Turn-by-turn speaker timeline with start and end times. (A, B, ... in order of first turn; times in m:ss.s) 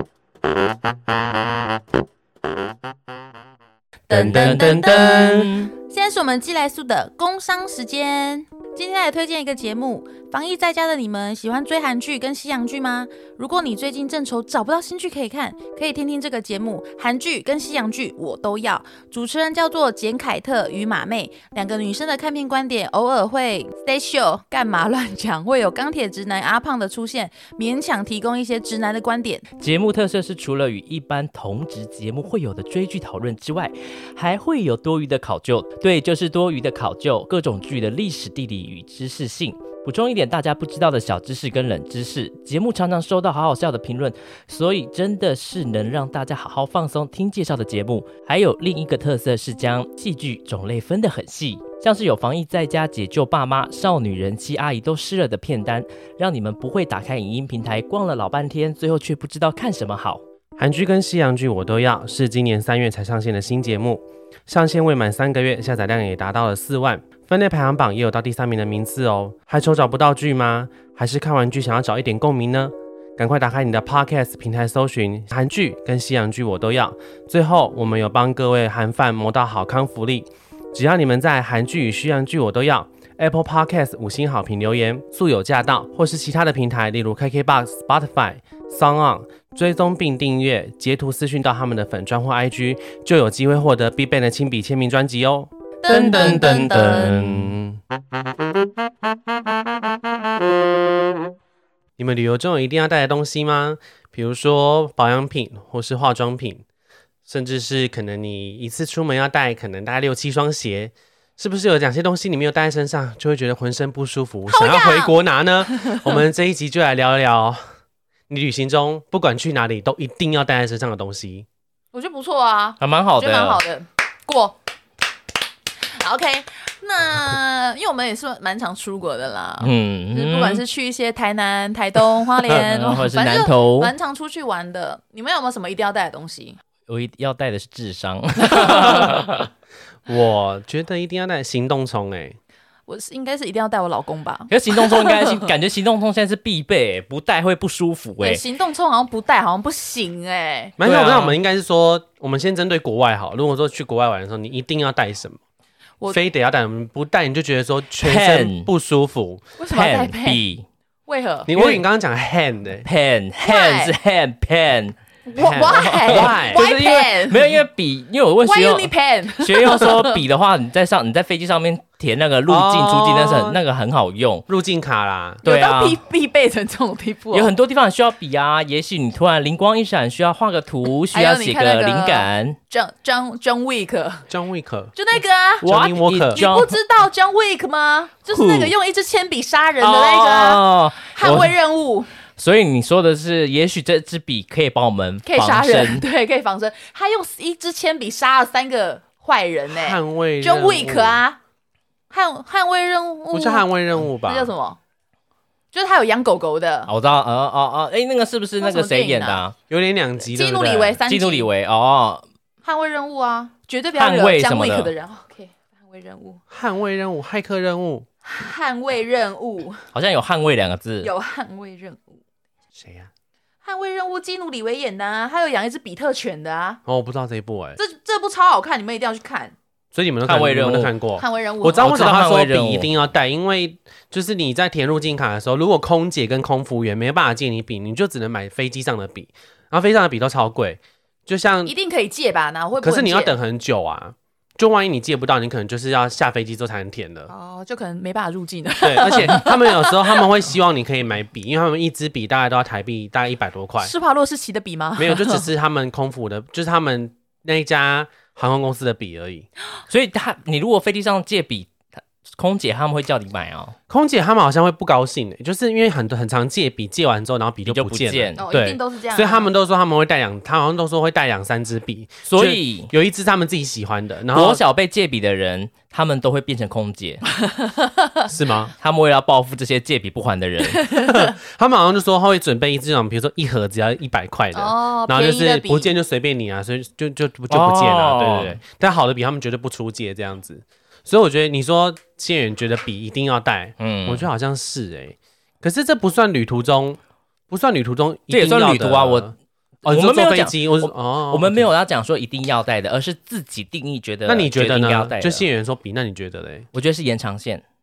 0:04.1-0:05.3 A
0:04.1-0:05.5 B
0:04.1-0:05.7 C
0:05.8-0:29.4 A
0:29.6-1:00.2 C
1:00.6-1:37.7 B
1:35.8-1:37.2 A
1:35.9-1:37.6 C
1:42.0-1:46.6 B
1:47.3-1:57.6 B
1:54.5-1:55.1 A
1:58.3-2:01.4 B
2:01.9-2:04.6 A
2:02.8-2:03.6 C
2:05.9-2:16.6 A
2:09.6-2:10.6 C
2:12.5-2:13.9 C
2:16.9-2:19.5 C
2:18.7-2:19.1 B
2:20.0-2:22.4 B
2:22.9-2:25.5 A
2:24.5-2:28.4 C
2:28.2-2:30.8 A
2:30.8-2:35.4 B
2:30.8-2:31.4 C
2:36.1-2:39.4 B
2:38.0-2:38.7 C
2:39.6-2:40.4 A
2:39.7-2:40.6 C
2:41.1-2:41.5 A
2:41.5-2:42.8 B
2:41.5-2:41.8 C
2:42.8-2:44.9 C
2:43.4-2:43.9 A
2:45.2-2:47.6 A
2:45.4-2:47.1 B
2:45.7-2:54.4 C
2:48.4-2:50.2 A
2:52.5-2:53.6 B
2:54.5-2:55.4 B
2:55.4-2:56.0 C
2:55.4-2:57.5 A
2:57.3-3:02.6 C
3:01.1-3:04.3 A
3:04.3-3:04.9 B
3:04.9-3:05.6 A
3:05.6-3:06.4 B
3:05.6-3:06.8 C
3:06.3-3:12.1 A
3:08.3-3:08.7 C
3:09.8-3:11.6 C
3:12.4-3:16.0 C
3:15.2-3:21.4 A
3:19.7-3:21.2 B
3:22.1-3:23.7 A
3:23.3-3:24.5 B
3:24.2-3:24.8 A
3:25.7-3:26.9 A
3:26.9-3:29.6 C
3:28.6-3:29.4 A
3:29.7-3:31.0 B
3:30.3-3:31.5 A
3:31.1-3:32.2 C
3:32.6-3:36.4 A
3:33.9-3:34.9 C
3:36.5-3:38.0 B
3:38.2-3:39.8 A
3:39.9-3:41.1 C
3:41.0-3:42.1 A
3:42.7-3:43.1 B
3:43.6-3:46.8 A
3:46.9-3:47.8 B
3:47.8-3:49.5 A
3:49.9-4:01.7 B
3:50.2-3:50.9 C
3:51.2-3:52.0 A
3:51.8-3:52.9 C
4:01.6-4:03.4 A
4:02.8-4:07.3 B
4:07.3-4:10.3 A
4:08.8-4:13.9 B
4:09.1-4:09.4 C
4:13.8-4:15.4 A
4:15.0-4:19.4 B
4:19.9-4:21.7 C
4:22.3-4:23.7 C
4:23.9-4:34.6 B
4:27.6-4:28.4 C
4:28.4-4:29.5 A
4:32.3-4:32.9 C
4:34.3-4:37.2 C
4:37.5-4:38.1 A
4:38.3-4:38.7 B
4:38.8-4:40.9 C
4:40.8-4:41.2 A
4:41.0-4:57.0 B
4:44.5-4:45.9 A
4:47.5-4:48.6 C
4:53.8-4:54.2 C
4:57.5-4:59.3 B
4:58.3-4:59.3 C
4:59.8-5:01.7 B
4:59.8-5:05.4 C
5:04.2-5:06.7 B
5:06.7-5:07.6 C